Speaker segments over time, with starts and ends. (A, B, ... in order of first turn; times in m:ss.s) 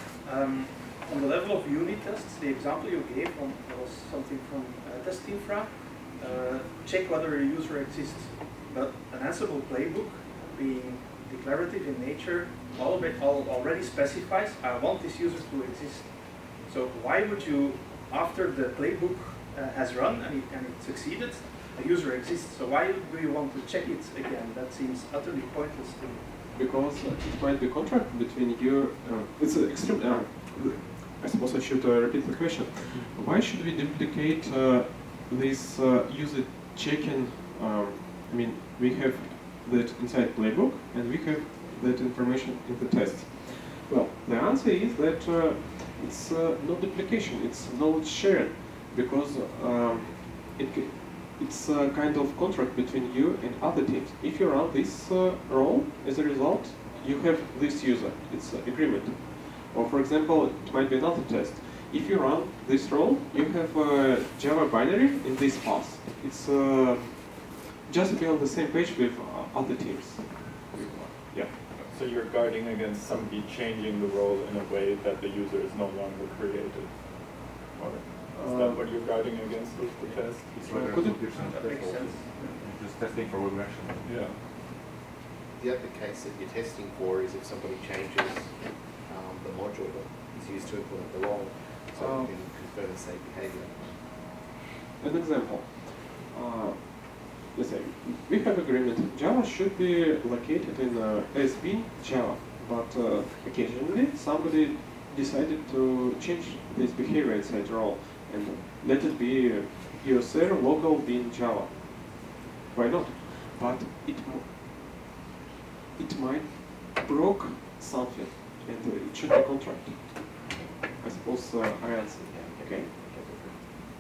0:00.2-0:26.3 A
0:26.5-1:11.9 B
1:11.3-1:21.0 C
1:18.3-1:18.9 B
1:20.0-1:24.4 D
1:20.6-1:21.5 B
1:21.3-1:22.3 A
1:24.0-1:24.4 C
1:25.6-1:34.0 E
1:32.0-1:32.3 B
1:35.0-1:54.6 B
1:56.0-2:03.3 B